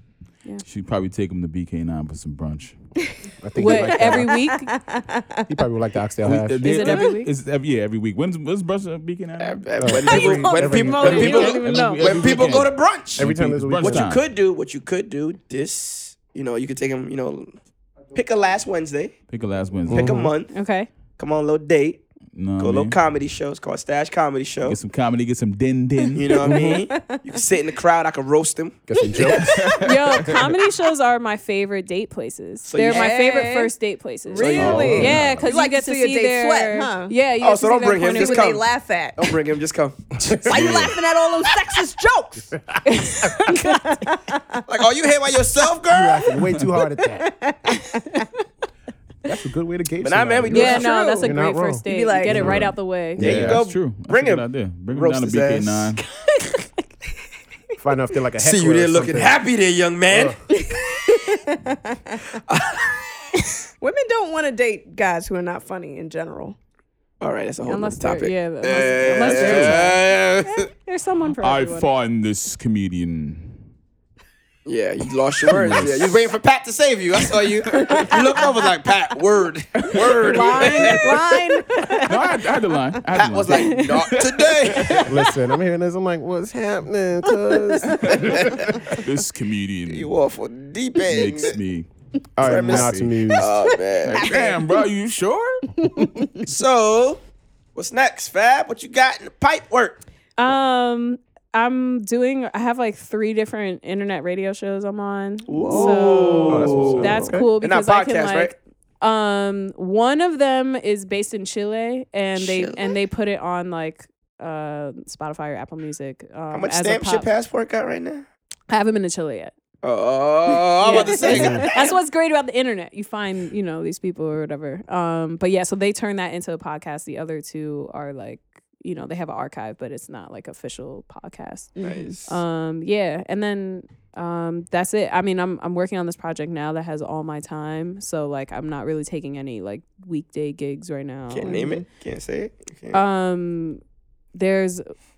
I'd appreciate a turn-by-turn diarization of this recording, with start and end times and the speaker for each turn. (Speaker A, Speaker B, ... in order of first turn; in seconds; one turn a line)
Speaker A: 0.6-2.8
Speaker B: 3.0-5.5
Speaker C: 3.4-4.4
Speaker D: 3.5-4.7
Speaker C: 5.5-6.8
Speaker A: 6.2-9.6
Speaker D: 6.6-7.3
Speaker B: 6.8-7.2
Speaker E: 9.4-13.2
Speaker C: 9.8-11.6
Speaker B: 9.8-11.2
Speaker D: 10.6-12.2
Speaker A: 11.0-14.2
Speaker C: 13.2-14.1
Speaker E: 13.9-17.5
Speaker E: 18.1-19.2
Speaker A: 19.3-20.2
Speaker C: 19.9-20.3
Speaker E: 19.9-20.5
Speaker D: 20.5-20.9
Speaker E: 21.2-22.0
Speaker A: 22.3-23.0
Speaker E: 22.6-24.8
Speaker A: 24.6-26.4
Speaker E: 26.1-29.4
Speaker C: 26.4-26.9
Speaker B: 26.4-27.4
Speaker C: 28.9-29.7
Speaker B: 29.0-29.8
Speaker A: 29.2-30.4
Speaker D: 29.7-38.6
Speaker E: 32.7-33.1
Speaker B: 32.8-33.7
Speaker B: 34.3-37.1
Speaker E: 34.4-34.9
Speaker A: 34.5-35.4
Speaker C: 34.7-35.5
Speaker E: 37.4-40.4
Speaker B: 38.1-39.4
Speaker C: 40.2-40.6
Speaker B: 40.4-42.5
Speaker A: 40.5-40.9
Speaker D: 42.8-43.9
Speaker B: 43.5-44.6
Speaker E: 44.7-46.2
Speaker C: 45.9-47.3
Speaker B: 46.8-48.3
Speaker C: 49.2-53.7
Speaker E: 50.0-51.3
Speaker D: 50.5-53.3
Speaker B: 51.9-52.5
Speaker E: 53.2-55.9
Speaker A: 53.2-56.0
Speaker B: 56.2-56.5
Speaker C: 57.8-59.4
Speaker E: 58.4-60.4
Speaker C: 60.1-60.4
Speaker B: 60.5-62.2
Speaker E: 62.5-63.0
Speaker B: 63.8-66.5
Speaker E: 67.2-70.7
Speaker D: 67.7-71.9
Speaker A: 69.1-69.9
Speaker A: 71.4-73.6
Speaker E: 74.7-81.1
Speaker A: 75.5-76.3
Speaker B: 77.7-78.5
Speaker A: 79.8-80.1
Speaker D: 80.2-82.2
Speaker B: 81.0-82.0
Speaker A: 82.1-85.1
Speaker E: 83.1-85.1
Speaker D: 83.5-84.2
Speaker C: 85.0-89.0
Speaker E: 88.0-88.7
Speaker A: 88.3-90.1
Speaker E: 89.9-91.5
Speaker A: 91.0-91.9
Speaker E: 92.3-94.5
Speaker C: 92.4-93.5
Speaker A: 92.4-93.4
Speaker A: 94.0-96.1
Speaker B: 94.1-94.6
Speaker B: 95.8-96.4
Speaker E: 96.4-97.2
Speaker E: 97.7-100.0
Speaker D: 100.4-117.3
Speaker E: 105.5-108.5
Speaker B: 105.5-106.7
Speaker C: 106.5-107.5
Speaker A: 106.7-107.0
Speaker E: 112.3-112.9
Speaker E: 116.5-118.2
Speaker D: 118.7-119.5
Speaker E: 119.8-122.0
Speaker B: 120.8-121.7
Speaker D: 120.8-141.7
Speaker C: 121.3-121.7
Speaker B: 131.8-132.2
Speaker E: 131.8-132.3
Speaker E: 141.3-143.0
Speaker B: 141.4-141.8
Speaker D: 142.9-143.8
Speaker D: 144.3-144.9